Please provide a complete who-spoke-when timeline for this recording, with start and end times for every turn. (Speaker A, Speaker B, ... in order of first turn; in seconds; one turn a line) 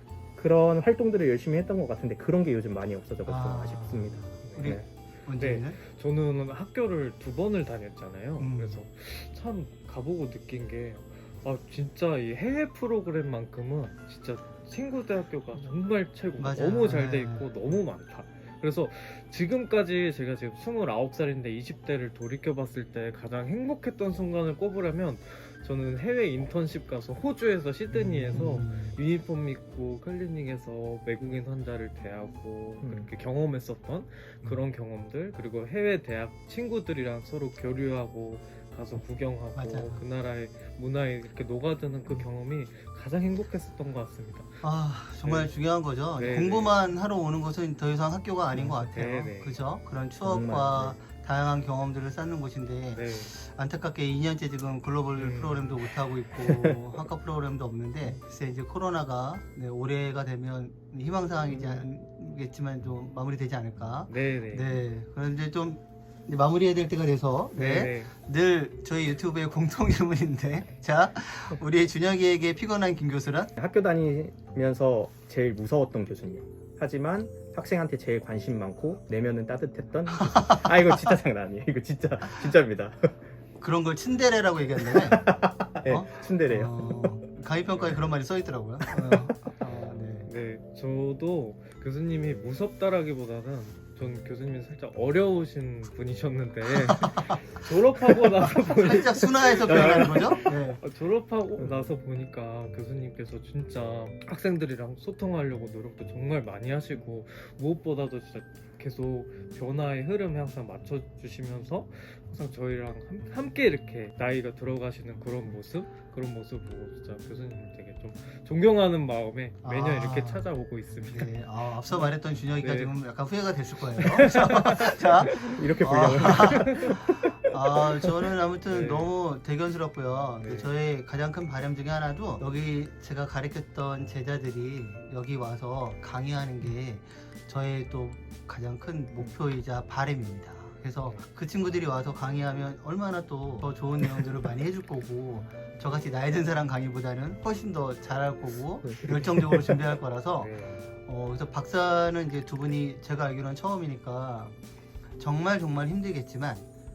Speaker A: 0.4-4.8
Speaker B: 3.3-5.8
Speaker C: 4.4-4.8
Speaker C: 5.4-44.6
Speaker B: 8.4-8.8
Speaker B: 16.4-17.5
Speaker B: 27.9-29.0
Speaker A: 32.8-33.1
Speaker B: 39.6-40.0
Speaker B: 44.6-73.5
Speaker C: 45.2-45.5
Speaker C: 46.1-46.7
Speaker C: 48.5-49.6
Speaker A: 50.2-51.0
Speaker C: 52.9-53.4
Speaker C: 55.2-55.8
Speaker A: 56.4-56.8
Speaker A: 61.5-61.8
Speaker C: 64.1-64.8
Speaker C: 67.5-68.1
Speaker A: 73.6-83.2
Speaker B: 80.1-80.7
Speaker B: 83.6-85.3
Speaker A: 84.9-87.2
Speaker B: 85.8-90.3
Speaker C: 87.7-88.1
Speaker C: 90.3-122.9
Speaker B: 97.0-97.4
Speaker B: 98.6-100.8
Speaker A: 99.7-100.3
Speaker A: 101.6-101.9
Speaker B: 119.6-120.5
Speaker B: 121.1-154.6
Speaker C: 124.0-125.7
Speaker A: 125.3-127.5
Speaker C: 126.3-126.7
Speaker C: 128.7-129.1
Speaker C: 130.4-130.7
Speaker A: 148.8-149.8
Speaker C: 150.4-150.9
Speaker B: 155.2-156.6